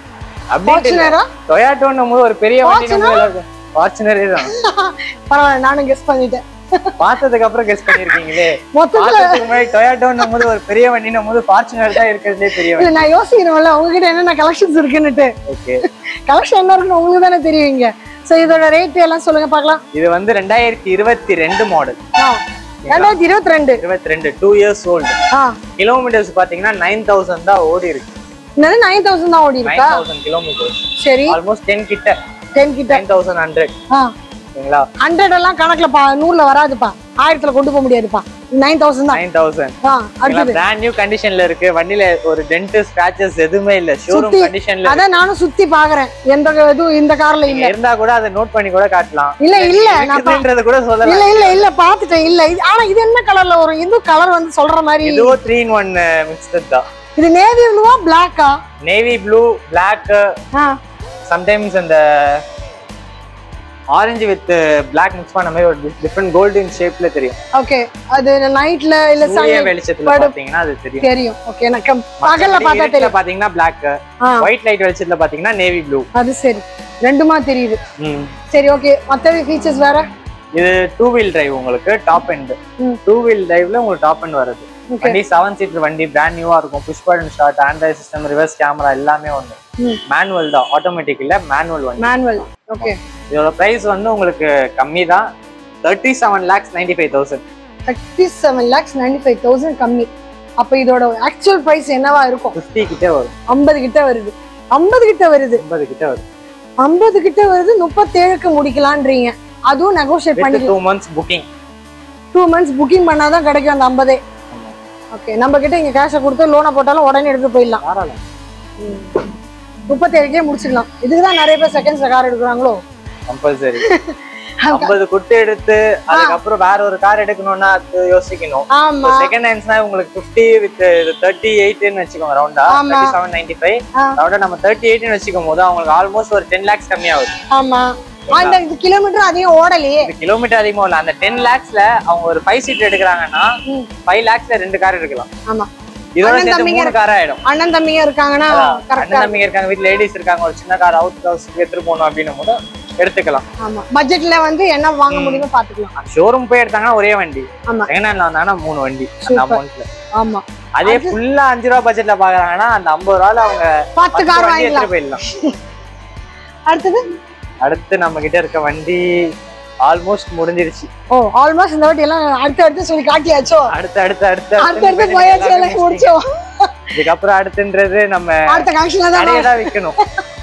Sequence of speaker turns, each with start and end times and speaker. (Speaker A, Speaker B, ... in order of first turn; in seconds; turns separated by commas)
Speaker A: 0.5-4.5, Speaker B: 0.7-1.3, Speaker B: 2.6-3.3, Speaker B: 4.4-6.9, Speaker A: 7.0-13.1, Speaker B: 7.9-9.6, Speaker B: 12.6-15.3, Speaker A: 15.5-15.8, Speaker B: 16.3-19.8, Speaker A: 19.9-22.0, Speaker B: 22.2-23.8, Speaker A: 22.9-23.2, Speaker A: 23.8-25.2, Speaker A: 25.8-28.1, Speaker B: 28.6-30.1, Speaker A: 29.6-32.1, Speaker B: 31.0-31.4, Speaker B: 32.5-33.0, Speaker A: 32.9-33.7, Speaker A: 34.6-34.9, Speaker B: 35.0-39.2, Speaker A: 39.1-39.8, Speaker B: 39.8-40.6, Speaker A: 40.3-45.0, Speaker B: 44.1-47.7, Speaker A: 47.5-51.7, Speaker B: 49.4-50.5, Speaker B: 51.0-55.4, Speaker A: 55.0-56.9, Speaker B: 57.2-58.5, Speaker A: 58.8-60.3, Speaker A: 61.3-62.4, Speaker A: 63.9-67.4, Speaker B: 67.5-70.3, Speaker A: 69.2-71.1, Speaker B: 71.0-73.1, Speaker A: 72.2-76.1, Speaker B: 74.2-74.5, Speaker B: 76.2-77.8, Speaker A: 78.0-78.3, Speaker B: 78.5-80.0, Speaker A: 80.5-89.6, Speaker B: 84.9-85.2, Speaker A: 90.1-92.1, Speaker B: 92.0-93.0, Speaker A: 92.8-95.3, Speaker A: 95.8-97.4, Speaker B: 97.9-102.6, Speaker A: 102.5-103.3, Speaker B: 103.5-105.6, Speaker A: 105.6-106.2, Speaker B: 106.8-110.7, Speaker A: 110.4-111.5, Speaker B: 112.3-114.2, Speaker B: 115.1-117.8, Speaker A: 117.8-118.2, Speaker B: 118.8-119.2, Speaker B: 119.9-122.8, Speaker A: 123.3-123.8, Speaker B: 123.8-124.9, Speaker A: 124.7-137.3, Speaker B: 126.1-126.4, Speaker B: 128.7-129.3, Speaker B: 132.7-133.2, Speaker B: 137.5-140.1, Speaker A: 138.3-138.6, Speaker A: 140.0-143.5, Speaker A: 144.1-145.3, Speaker A: 146.2-147.4, Speaker B: 146.2-149.4, Speaker A: 148.5-153.4, Speaker B: 153.6-155.9, Speaker A: 155.1-159.8, Speaker B: 159.2-159.6, Speaker B: 160.2-161.2, Speaker A: 160.8-165.2, Speaker B: 164.0-165.5, Speaker B: 166.7-167.0, Speaker A: 167.6-169.2, Speaker A: 169.8-170.9, Speaker B: 171.1-173.7, Speaker A: 173.7-176.1, Speaker B: 174.6-176.8, Speaker A: 176.9-180.0, Speaker B: 178.5-179.9